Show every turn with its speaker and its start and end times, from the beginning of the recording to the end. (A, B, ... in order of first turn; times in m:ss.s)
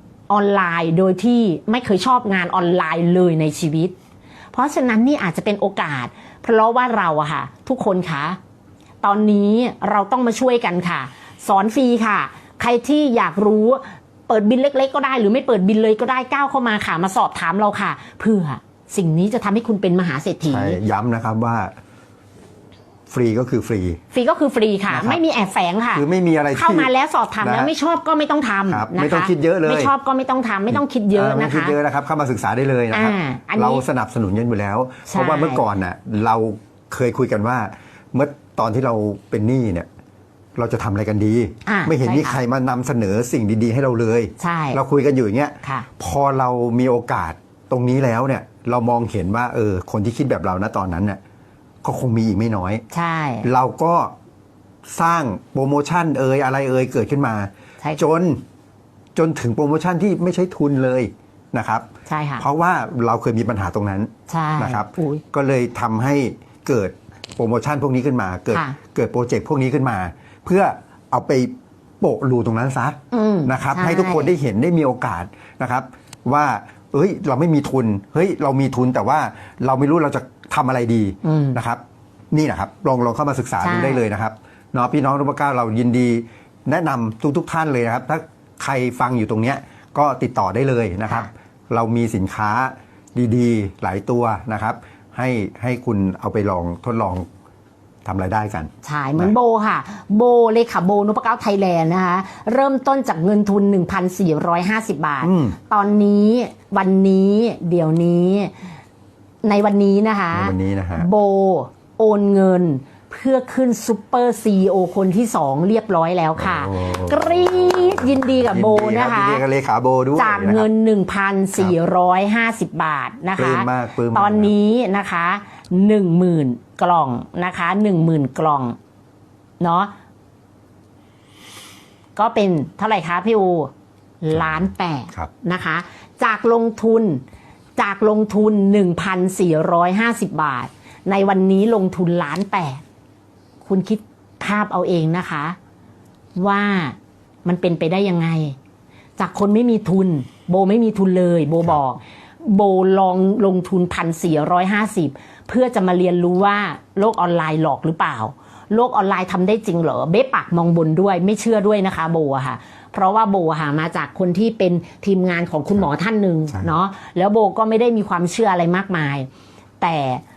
0:00.3-0:03.9 A
0:04.5-0:08.4 A
0:09.0-0:20.8 A
0:20.5-0:21.7 B
0:23.1-0:24.0 B
0:24.1-0:31.8 A
0:24.9-0:25.2 B
0:25.9-0:27.7 B
0:28.7-0:29.9 B
0:30.7-0:39.9 B
0:32.9-0:33.8 A
0:35.1-0:35.6 A
0:40.6-0:51.2 B
0:41.6-0:42.4 A
0:44.4-0:44.8 A
0:51.8-0:52.8 B
0:52.9-0:53.4 A
0:53.4-0:54.1 B
0:54.8-0:58.4 B
0:59.1-1:01.9 B
1:02.1-1:02.4 A
1:02.4-1:37.2 B
1:04.3-1:05.2 A
1:13.1-1:14.3 A
1:21.2-1:21.6 A
1:23.6-1:24.0 A
1:38.0-1:39.3 B
1:38.8-1:48.5 A
1:45.2-1:45.6 B
1:49.4-1:59.4 A
1:50.3-1:51.1 B
1:56.4-2:00.7 B
2:00.2-2:08.8 A
2:03.4-2:04.5 B
2:09.6-2:09.9 A
2:12.2-2:13.7 A
2:14.2-2:17.2 A
2:14.3-2:15.3 B
2:17.8-2:22.8 A
2:23.6-2:25.6 A
2:26.4-2:28.6 A
2:29.2-2:49.3 A
2:49.8-2:50.2 A